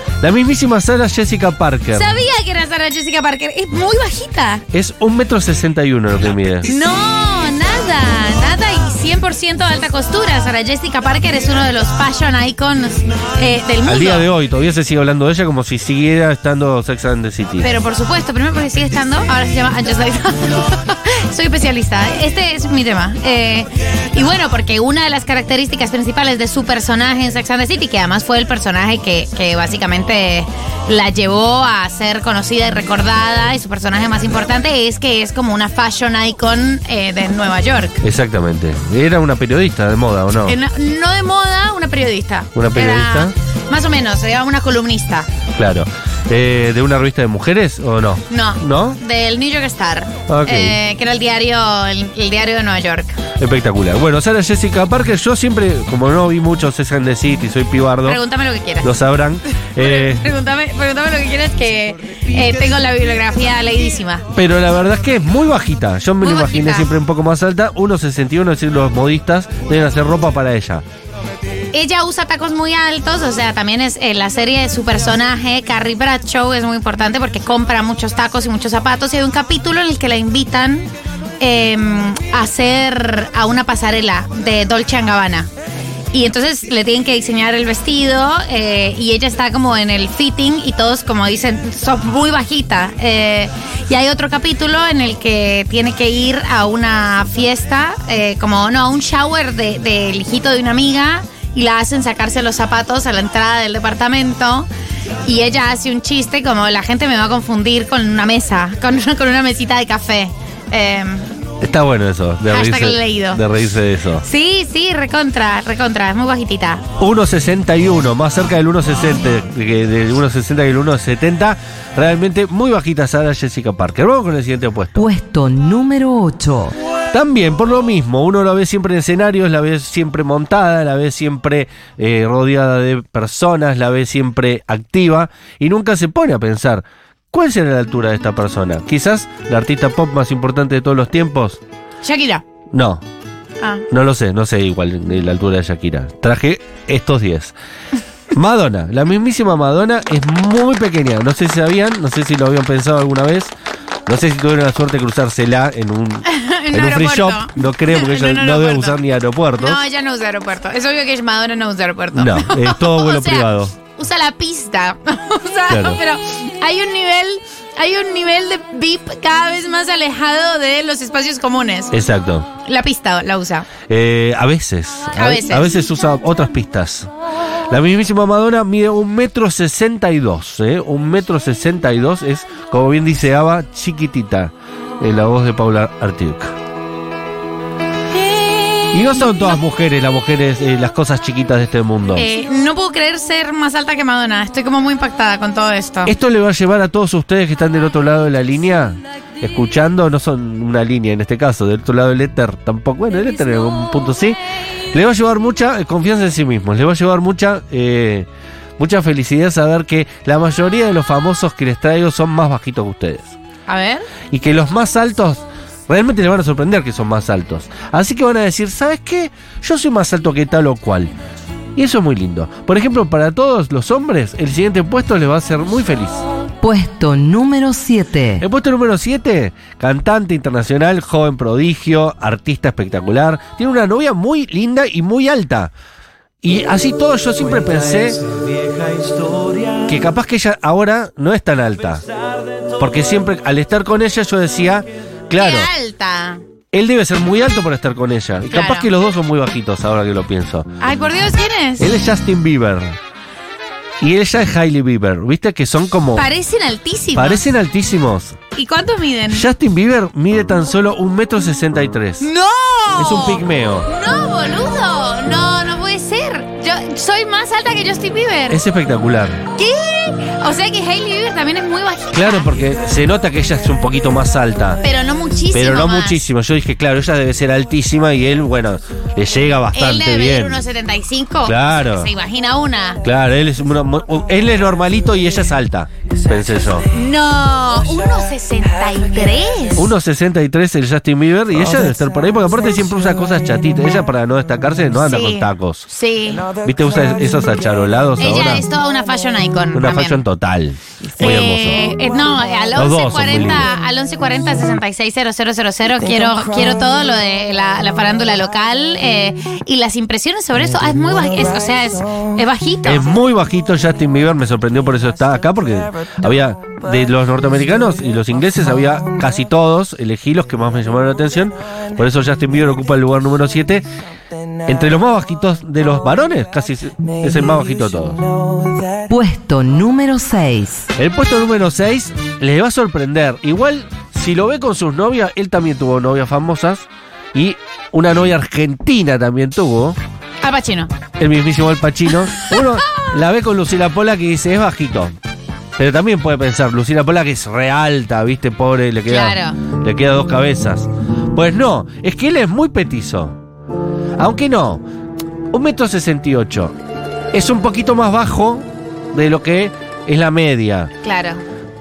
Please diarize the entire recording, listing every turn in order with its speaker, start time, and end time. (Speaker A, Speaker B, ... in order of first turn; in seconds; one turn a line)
Speaker A: 0.2-2.1
Speaker B: 1.9-4.7
Speaker A: 4.7-6.7
Speaker B: 6.6-14.3
Speaker A: 13.8-17.7
Speaker B: 17.6-38.0
Speaker A: 38.0-40.6
Speaker B: 40.5-45.3
Speaker A: 42.5-43.3
Speaker A: 45.5-49.0
Speaker B: 48.3-53.2
Speaker A: 50.3-50.8
Speaker A: 53.4-58.2
Speaker B: 58.0-58.9
Speaker A: 58.8-60.2
Speaker B: 59.8-64.3
Speaker A: 64.3-70.8
Speaker B: 66.2-66.9
Speaker B: 71.7-85.5
Speaker B: 86.1-104.7
Speaker B: 105.3-111.3
Speaker A: 111.6-114.2
Speaker B: 112.5-113.4
Speaker B: 114.2-116.8
Speaker A: 117.0-125.0
Speaker C: 125.0-126.8
Speaker A: 127.1-141.6
Speaker B: 142.0-142.4
Speaker A: 142.7-143.0
Speaker A: 143.9-147.6
Speaker A: 148.3-153.5
Speaker A: 154.1-159.8
Speaker B: 156.3-159.0
Speaker B: 159.6-171.9
Speaker A: 162.1-163.7
Speaker A: 165.7-166.0
Speaker A: 171.9-172.5
Speaker B: 172.7-173.7
Speaker A: 173.9-177.1
Speaker B: 175.2-175.8
Speaker A: 177.7-186.6
Speaker B: 188.2-189.6
Speaker A: 188.9-192.3
Speaker B: 192.2-196.1
Speaker A: 196.1-204.4
Speaker A: 204.9-208.3
Speaker A: 208.8-213.3
Speaker B: 213.7-214.1
Speaker A: 214.3-221.1
Speaker A: 221.8-226.2
Speaker C: 226.6-228.4
Speaker A: 228.4-235.7
Speaker A: 236.4-238.2
Speaker A: 239.8-242.1
Speaker A: 242.8-245.7
Speaker B: 245.4-246.4
Speaker A: 246.7-250.7
Speaker B: 248.5-248.9
Speaker B: 250.8-251.9
Speaker A: 251.8-253.0
Speaker A: 254.0-256.3
Speaker B: 256.2-257.4
Speaker A: 257.1-258.4
Speaker B: 258.6-259.5
Speaker A: 259.3-262.3
Speaker B: 262.2-268.6
Speaker A: 263.0-263.9
Speaker A: 268.5-269.4
Speaker B: 269.6-272.5
Speaker A: 272.1-274.8
Speaker B: 274.8-276.2
Speaker A: 275.5-280.6
Speaker B: 279.7-283.0
Speaker A: 281.4-282.1
Speaker A: 283.0-286.9
Speaker B: 286.9-289.9
Speaker A: 289.8-295.9
Speaker B: 295.0-296.5
Speaker A: 296.6-298.7
Speaker B: 298.2-300.2
Speaker A: 299.7-301.8
Speaker B: 301.2-313.1
Speaker A: 302.8-303.7
Speaker A: 312.9-323.9
Speaker A: 324.6-328.2
Speaker C: 329.1-330.9
Speaker A: 331.0-340.0
Speaker B: 340.4-340.9
Speaker A: 341.2-345.2
Speaker B: 342.4-343.1
Speaker A: 345.8-353.4
Speaker B: 349.1-349.6
Speaker A: 354.2-354.8
Speaker A: 355.5-356.7
Speaker A: 357.3-360.9
Speaker B: 361.0-361.4